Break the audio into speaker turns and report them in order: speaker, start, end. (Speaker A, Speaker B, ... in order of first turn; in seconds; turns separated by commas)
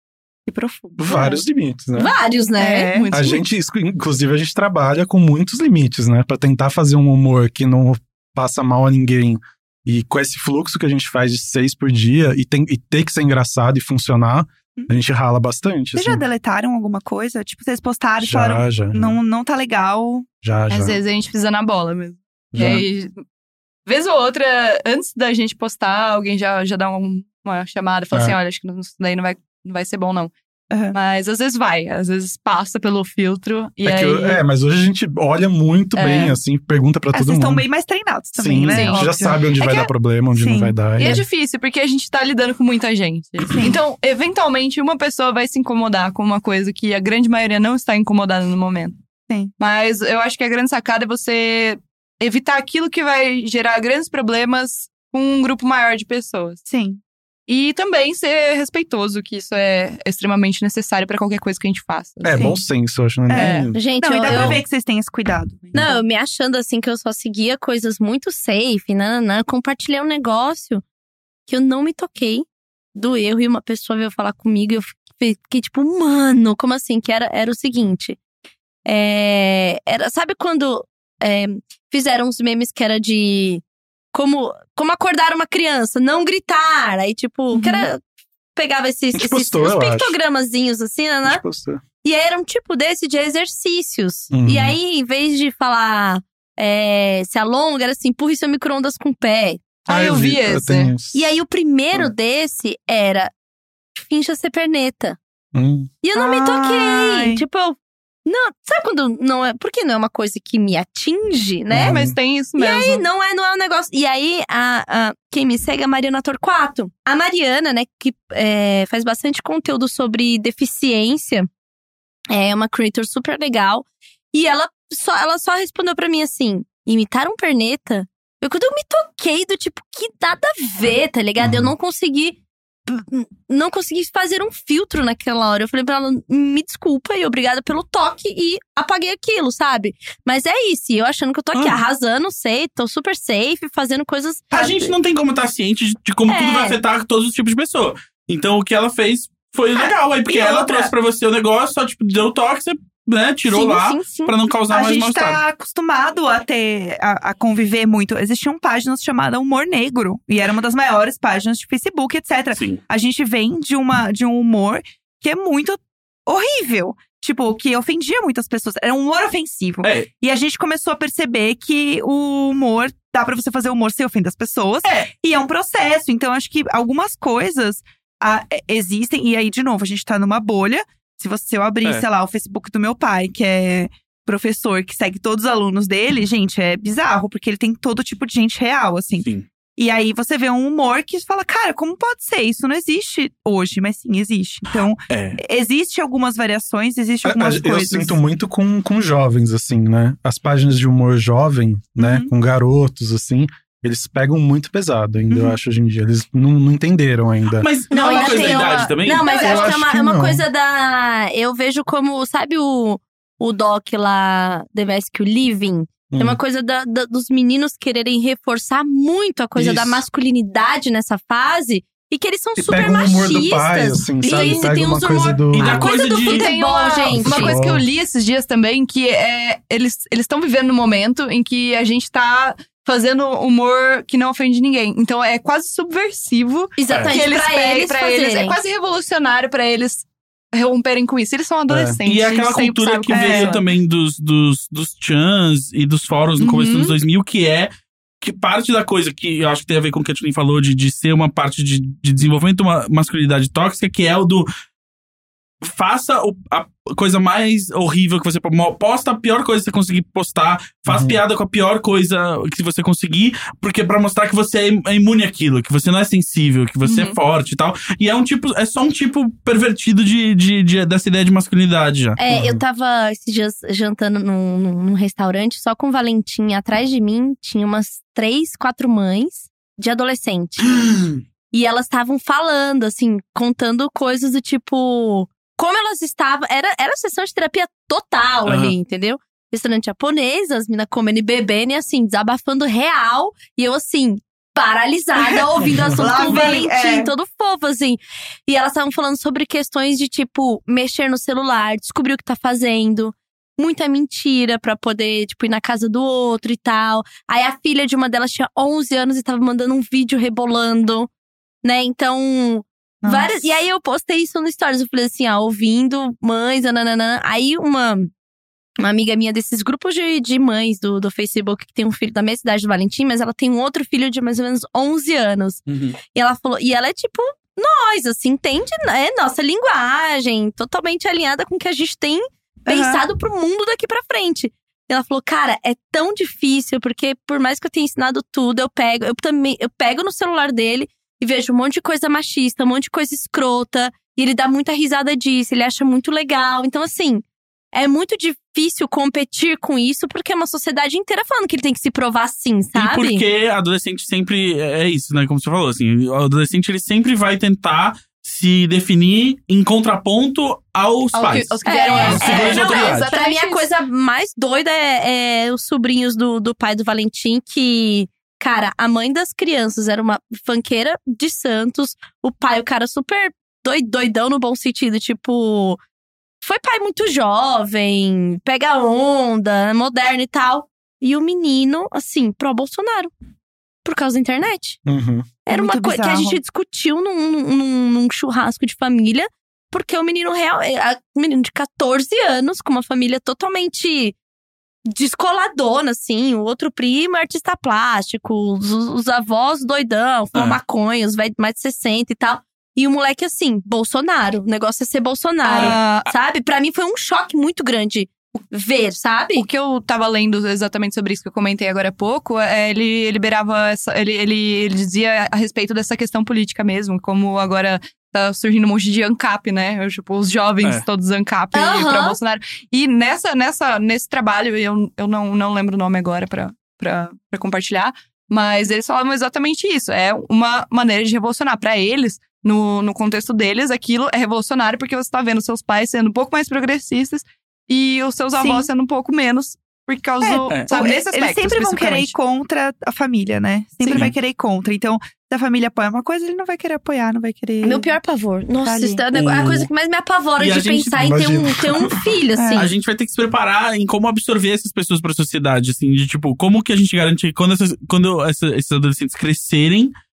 Speaker A: 0.5-1.4, Speaker B: 1.0-2.1, Speaker C: 1.9-2.9, Speaker A: 2.6-3.1, Speaker D: 2.9-3.4, Speaker B: 3.1-16.2, Speaker A: 15.9-20.3, Speaker B: 18.2-19.2, Speaker B: 20.4-21.0, Speaker D: 20.7-23.2, Speaker B: 22.5-22.9, Speaker D: 23.9-30.3, Speaker B: 28.1-28.4, Speaker A: 30.7-30.9, Speaker D: 30.9-34.4, Speaker B: 33.8-37.6, Speaker D: 36.0-36.4, Speaker A: 37.1-41.1, Speaker B: 38.3-41.2, Speaker D: 38.7-39.8, Speaker D: 40.9-49.0, Speaker A: 43.5-43.8, Speaker D: 49.6-56.6, Speaker A: 56.7-57.0, Speaker D: 57.5-62.5, Speaker B: 62.2-63.8, Speaker A: 62.3-62.6, Speaker A: 63.3-66.0, Speaker D: 63.3-64.3, Speaker C: 63.7-64.6, Speaker C: 65.7-70.8, Speaker C: 71.5-78.2, Speaker C: 78.8-88.0, Speaker A: 87.5-87.8, Speaker C: 88.5-91.4, Speaker B: 89.1-90.1, Speaker B: 91.2-91.8, Speaker C: 92.0-99.6, Speaker B: 94.3-94.8, Speaker D: 99.8-100.9, Speaker B: 99.9-101.2, Speaker C: 101.1-103.3, Speaker C: 103.9-105.2, Speaker B: 105.5-105.9, Speaker C: 106.0-112.0, Speaker A: 106.2-107.4, Speaker B: 111.7-112.2, Speaker D: 111.8-113.0, Speaker C: 112.6-121.5, Speaker C: 122.3-144.9, Speaker B: 131.4-131.7, Speaker E: 144.5-155.4, Speaker C: 146.3-146.8, Speaker A: 149.8-150.9, Speaker C: 153.5-154.3, Speaker A: 154.7-198.2, Speaker E: 162.5-162.8, Speaker E: 169.8-170.1, Speaker E: 195.1-195.4, Speaker B: 197.2-207.7, Speaker A: 202.0-202.3, Speaker A: 205.3-205.6, Speaker E: 207.6-209.4, Speaker C: 207.9-227.6, Speaker D: 208.1-209.3, Speaker B: 209.2-210.4, Speaker B: 216.1-216.4, Speaker B: 219.6-220.0, Speaker B: 222.6-225.8, Speaker D: 224.3-224.7, Speaker E: 225.5-226.5, Speaker D: 226.1-243.6, Speaker B: 227.1-227.8, Speaker C: 236.8-238.6, Speaker B: 241.7-242.0, Speaker E: 242.1-254.5, Speaker A: 243.1-243.6, Speaker D: 246.4-247.0, Speaker E: 255.6-272.2, Speaker B: 260.9-261.2, Speaker D: 266.8-267.2, Speaker C: 272.2-280.9, Speaker B: 272.3-272.6, Speaker E: 280.6-281.2, Speaker C: 281.5-311.1, Speaker E: 288.4-288.7, Speaker A: 295.9-297.1, Speaker C: 311.6-318.1, Speaker A: 313.0-313.3, Speaker C: 318.8-353.2, Speaker E: 325.7-326.0, Speaker A: 332.7-333.0, Speaker E: 352.7-363.1, Speaker D: 361.1-363.7, Speaker C: 361.6-375.8, Speaker C: 376.4-383.1, Speaker C: 383.8-384.8, Speaker B: 384.9-385.3, Speaker C: 385.4-394.1, Speaker A: 385.5-386.4, Speaker C: 394.9-409.5, Speaker D: 405.4-406.1, Speaker D: 409.3-442.1, Speaker C: 421.5-422.2, Speaker A: 438.4-438.7, Speaker A: 440.2-447.9, Speaker C: 447.6-452.7, Speaker A: 448.6-449.0, Speaker E: 449.1-449.7, Speaker E: 450.4-451.1, Speaker B: 451.0-451.9, Speaker A: 452.4-452.7, Speaker E: 452.5-459.9